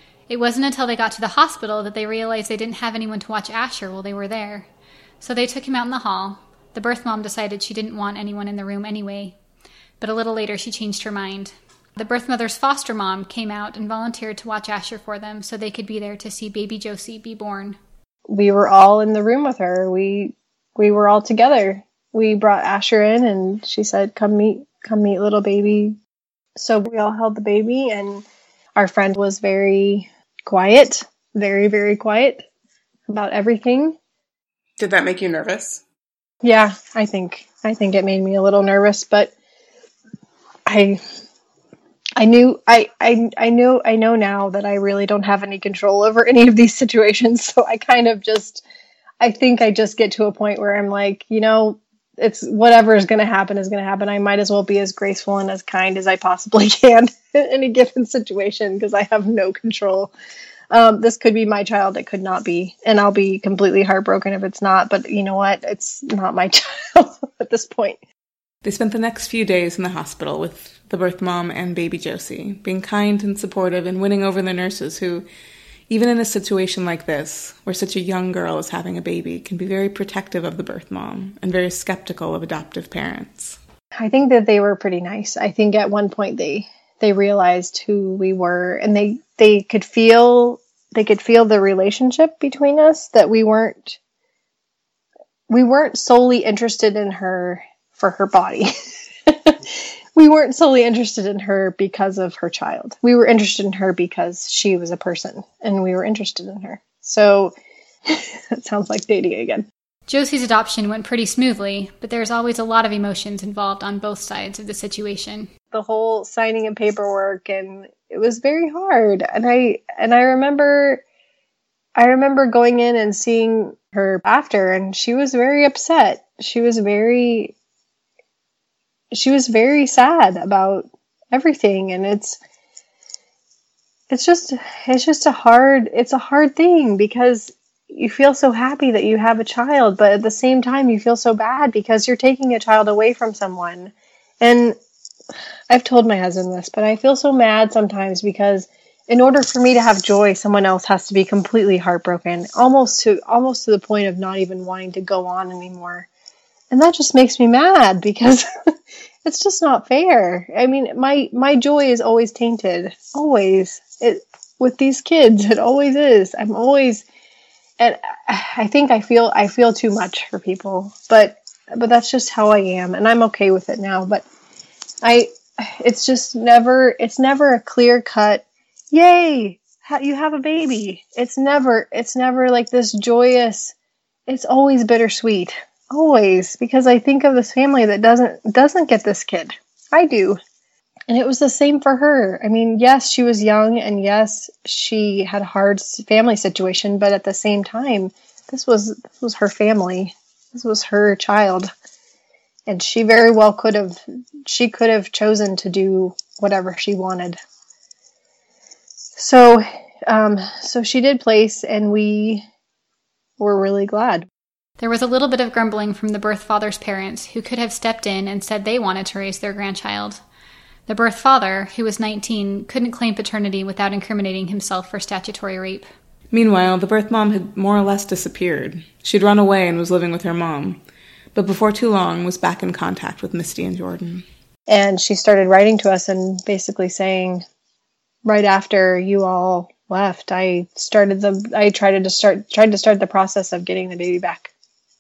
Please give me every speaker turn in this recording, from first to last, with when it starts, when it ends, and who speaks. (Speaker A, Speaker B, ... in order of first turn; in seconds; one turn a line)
Speaker A: 0.3-4.7
Speaker A: 5.2-9.4
Speaker A: 10.0-17.8
Speaker B: 18.3-26.0
Speaker B: 26.6-28.2
Speaker B: 28.8-32.5
Speaker B: 33.1-34.0
Speaker C: 34.8-35.8
Speaker B: 36.4-39.3
Speaker B: 40.7-41.0
Speaker B: 42.2-48.6
Speaker B: 49.2-60.1
Speaker B: 60.7-68.0
Speaker C: 68.6-75.3
Speaker C: 75.9-83.6
Speaker B: 84.0-94.0
Speaker B: 95.5-98.7
Speaker B: 99.3-107.5
Speaker B: 108.1-109.7
Speaker A: 110.1-115.5
Speaker B: 115.7-121.0
Speaker B: 122.0-127.5
Speaker B: 129.1-132.4
Speaker B: 134.1-144.8
Speaker B: 145.7-156.1
Speaker B: 156.7-158.5
Speaker B: 159.2-167.1
Speaker B: 167.8-174.2
Speaker B: 175.0-183.7
Speaker B: 184.3-190.4
Speaker B: 191.1-201.7
Speaker B: 202.7-207.4
Speaker B: 209.2-212.4
Speaker B: 213.4-214.3
Speaker A: 214.8-220.2
Speaker A: 220.9-225.9
Speaker C: 226.3-230.8
Speaker C: 231.3-234.2
Speaker B: 234.7-237.4
Speaker B: 238.2-244.5